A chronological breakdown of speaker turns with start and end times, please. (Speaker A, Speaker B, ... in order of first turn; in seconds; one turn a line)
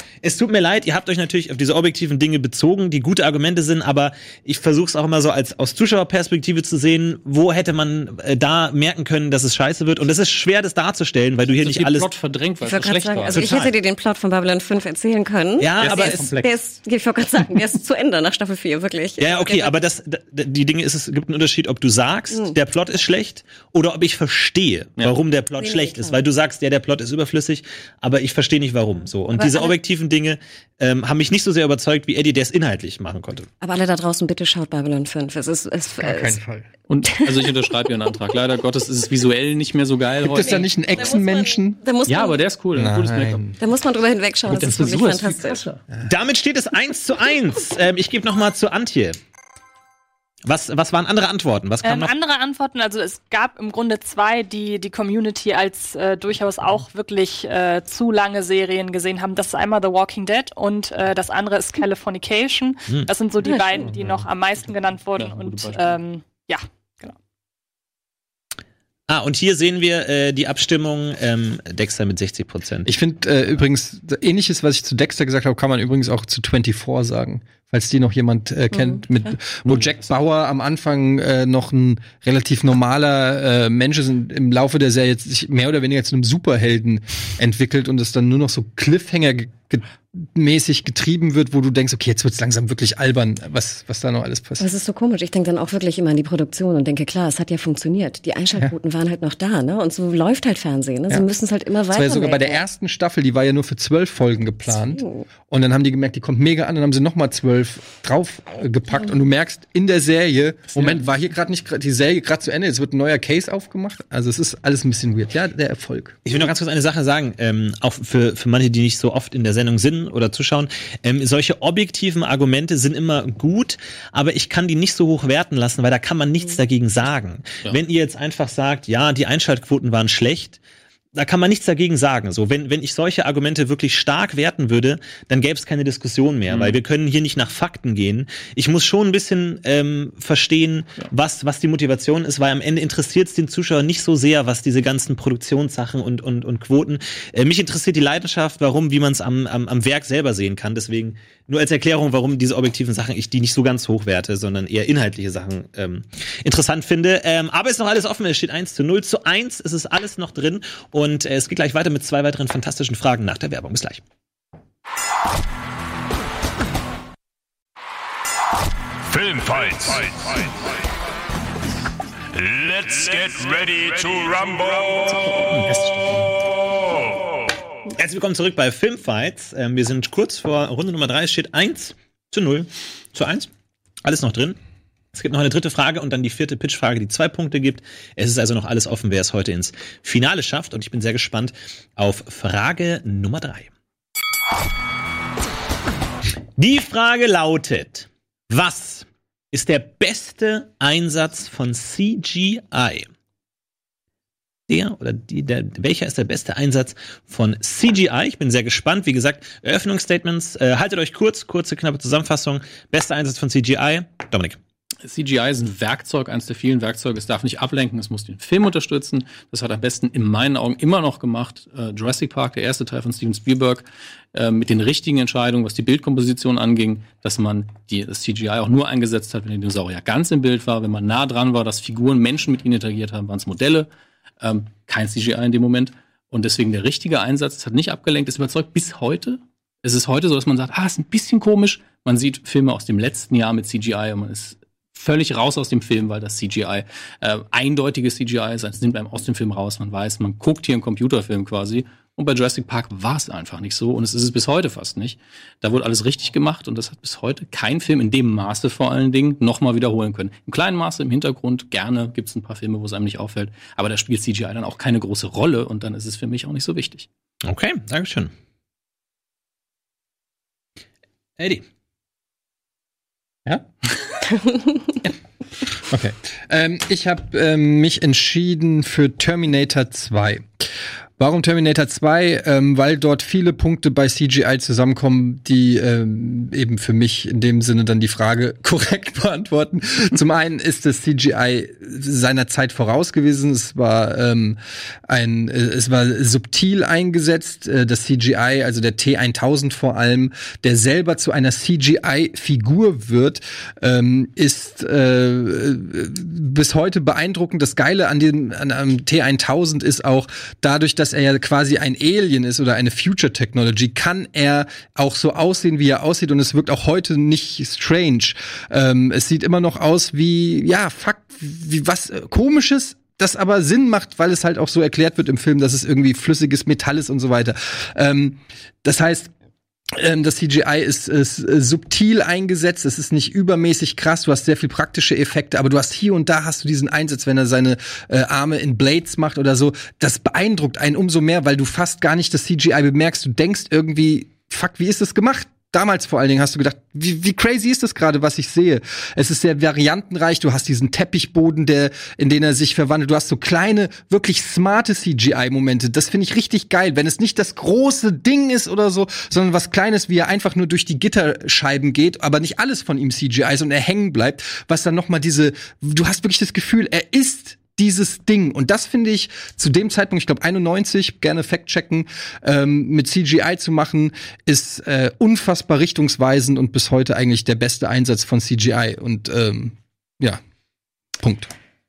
Speaker A: 0.2-12.1
Speaker B: 11.5-13.7
Speaker C: 12.6-19.8
Speaker A: 13.3-13.7
Speaker A: 15.6-16.4
Speaker B: 15.8-16.5
Speaker A: 19.2-33.5
Speaker C: 25.6-26.2
Speaker C: 29.3-29.7
Speaker C: 33.6-36.4
Speaker D: 36.0-36.7
Speaker B: 36.9-41.0
Speaker C: 37.1-37.9
Speaker D: 40.2-41.8
Speaker C: 40.2-42.4
Speaker B: 42.0-43.5
Speaker D: 42.7-43.6
Speaker C: 43.6-45.6
Speaker B: 44.5-45.8
Speaker A: 46.0-49.2
Speaker A: 50.4-52.1
Speaker E: 51.8-67.1
Speaker C: 63.4-63.9
Speaker B: 65.1-66.0
Speaker A: 69.1-72.9
Speaker D: 72.8-94.7
Speaker C: 94.6-102.6
Speaker D: 101.9-116.2
Speaker C: 104.7-105.2
Speaker B: 110.7-111.0
Speaker A: 116.2-130.6
Speaker A: 131.1-164.0
Speaker F: 169.0-170.6
Speaker F: 172.3-175.2
Speaker B: 175.3-176.2
Speaker A: 177.9-183.5
Speaker A: 184.0-184.6
Speaker A: 185.1-193.7
Speaker A: 196.6-203.1
Speaker A: 204.7-214.6
Speaker B: 215.1-233.9
Speaker B: 234.4-267.1
Speaker A: 267.4-268.3
Speaker A: 271.4-271.6
Speaker C: 274.4-274.7
Speaker D: 276.5-280.6
Speaker D: 281.2-329.3
Speaker D: 329.9-380.4
Speaker D: 381.2-381.5